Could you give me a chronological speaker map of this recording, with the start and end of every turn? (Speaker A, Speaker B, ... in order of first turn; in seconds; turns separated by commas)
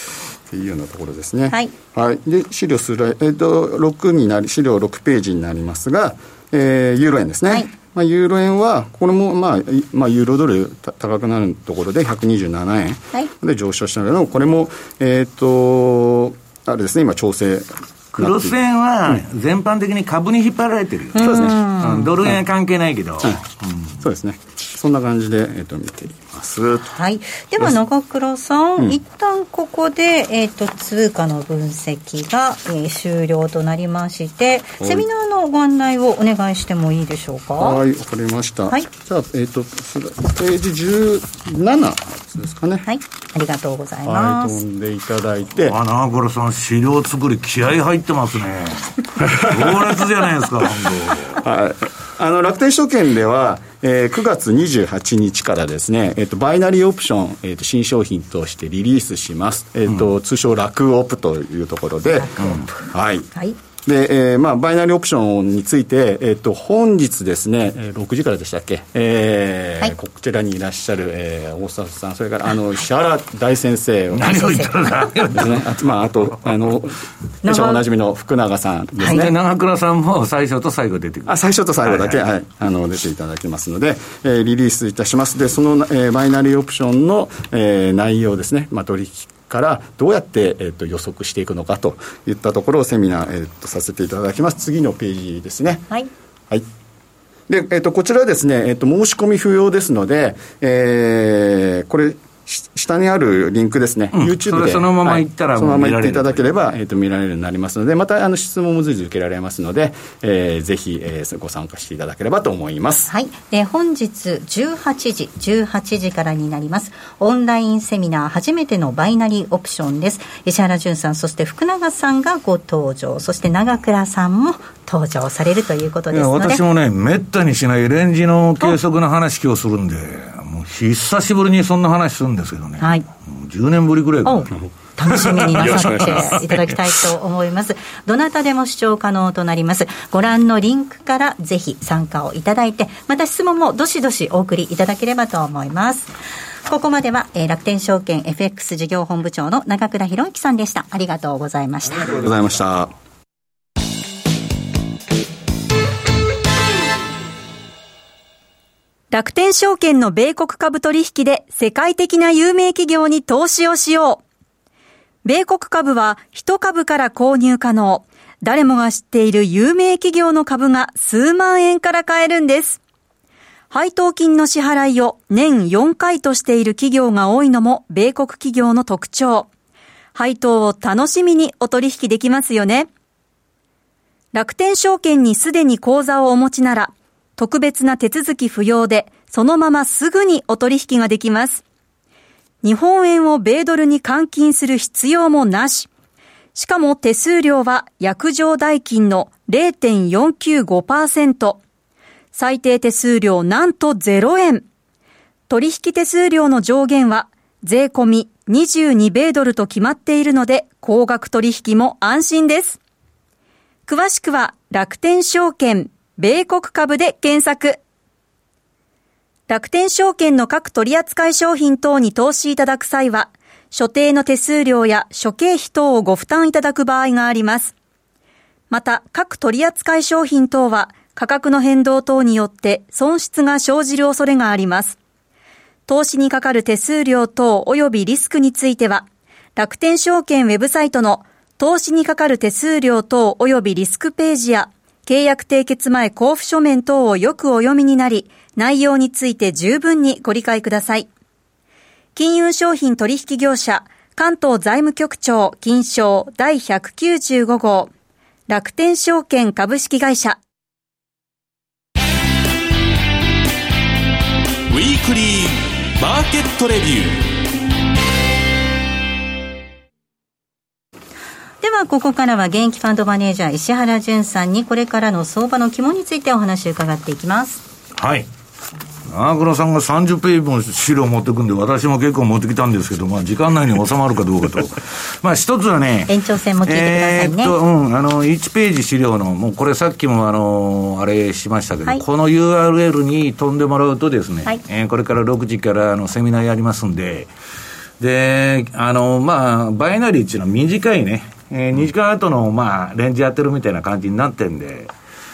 Speaker A: 0.5-19.2, Speaker B: 18.1-23.9, Speaker A: 21.1-21.6, Speaker C: 21.1-22.1, Speaker A: 24.0-26.9, Speaker C: 26.8-37.8, Speaker A: 34.8-35.0, Speaker A: 37.6-42.9, Speaker C: 42.8-44.6, Speaker A: 44.0-45.8, Speaker B: 45.6-51.4, Speaker A: 49.4-49.7, Speaker A: 51.3-62.4, Speaker C: 62.1-63.6, Speaker A: 62.9-63.3, Speaker A: 63.8-74.7, Speaker B: 74.1-75.6, Speaker C: 74.2-74.8, Speaker A: 75.3-79.3, Speaker C: 77.4-77.8, Speaker C: 79.0-79.3, Speaker B: 79.0-82.2, Speaker A: 81.2-95.9, Speaker A: 97.5-113.1, Speaker B: 104.1-106.5, Speaker C: 113.1-126.6, Speaker B: 126.1-134.5, Speaker C: 132.8-133.1, Speaker C: 134.2-146.1, Speaker B: 135.1-136.7, Speaker A: 135.6-136.3, Speaker C: 146.7-152.2, Speaker A: 152.0-152.9, Speaker D: 159.1-164.2, Speaker D: 165.2-172.8, Speaker D: 173.7-179.5, Speaker D: 180.1-182.9, Speaker D: 184.3-191.6, Speaker D: 192.6-195.9, Speaker D: 196.5-201.6, Speaker D: 202.3-204.6, Speaker D: 205.5-212.8, Speaker D: 213.9-217.8, Speaker D: 219.5-227.7, Speaker D: 228.7-235.0, Speaker D: 235.9-239.0, Speaker D: 239.6-251.1, Speaker D: 252.1-257.9, Speaker D: 258.5-260.4, Speaker E: 264.7-267.2, Speaker C: 271.6-277.6, Speaker B: 278.0-278.3, Speaker B: 279.1-297.3, Speaker C: 286.1-287.5, Speaker B: 298.0-304.9